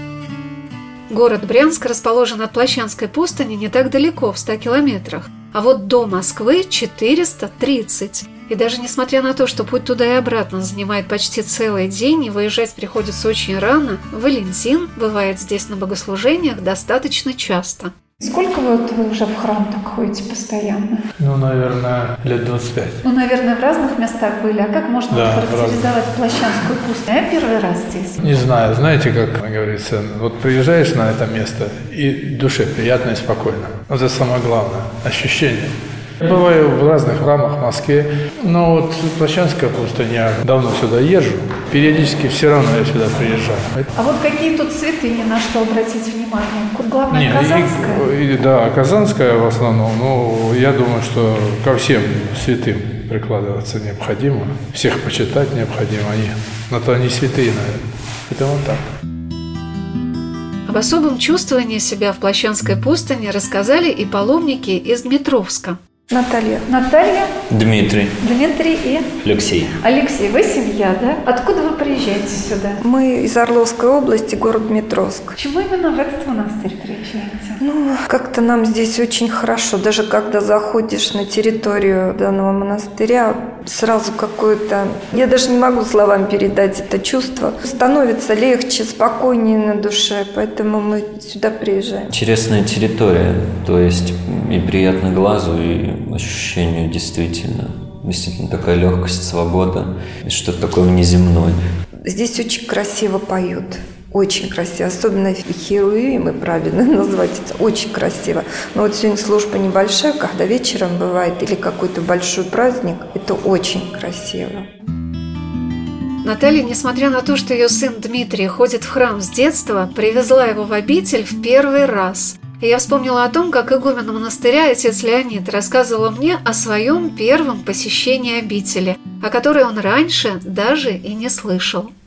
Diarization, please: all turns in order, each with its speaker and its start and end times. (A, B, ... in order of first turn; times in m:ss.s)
0:01.1-0:17.9 A
0:21.2-0:23.0 B
0:23.0-0:28.2 A
0:25.1-0:25.9 B
0:28.2-0:43.9 B
0:44.0-0:48.0 A
0:47.1-0:58.8 B
1:00.7-1:05.8 A
1:06.1-1:06.6 C
1:06.7-1:07.2 A
1:07.5-1:08.1 D
1:08.6-1:08.9 A
1:10.0-1:12.8 A
1:12.8-1:15.4 C
1:15.4-1:17.6 A
1:17.6-1:32.1 C
1:32.1-1:41.6 D
1:42.0-1:54.7 C
1:56.2-2:11.9 A